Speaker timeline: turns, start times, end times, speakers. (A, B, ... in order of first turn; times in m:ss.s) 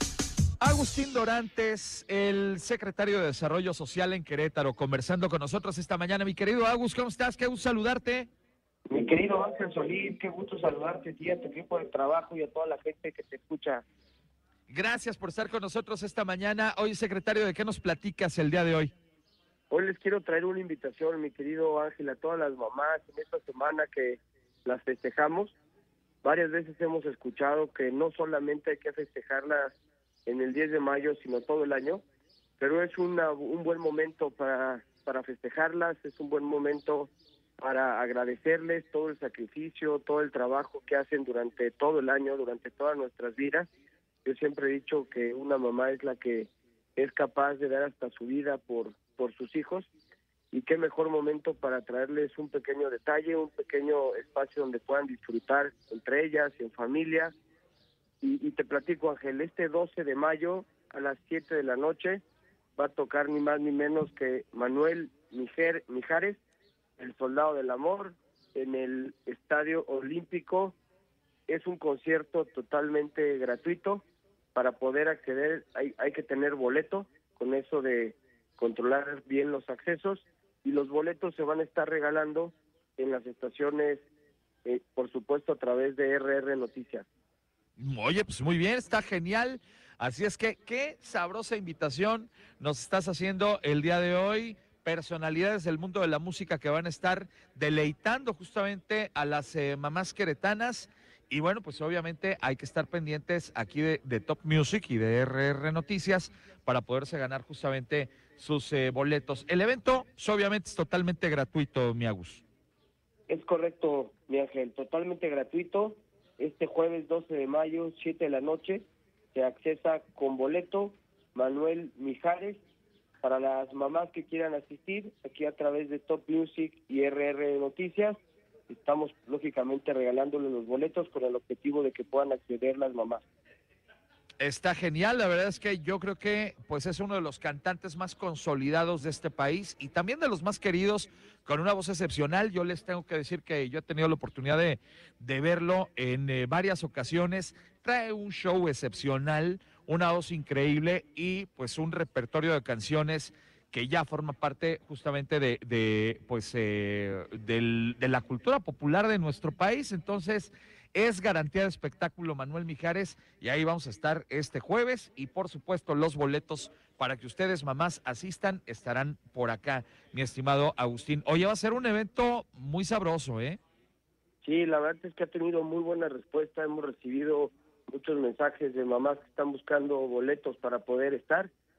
0:00.6-0:08.3 A
0:08.9-0:13.8 B
0:14.7-0:18.9 A
0:19.7-0:25.6 B
0:26.2-0:32.0 B
0:32.6-0:43.7 B
0:44.2-0:49.9 B
0:50.5-0:57.3 B
0:58.2-1:02.2 B
1:02.8-1:06.4 B
1:07.0-1:10.8 B
1:11.5-1:24.1 B
1:24.6-1:27.1 B
1:27.8-1:52.4 A
1:53.3-2:02.6 B
2:03.2-2:13.2 B
2:14.4-2:53.6 A
2:54.4-3:01.5 B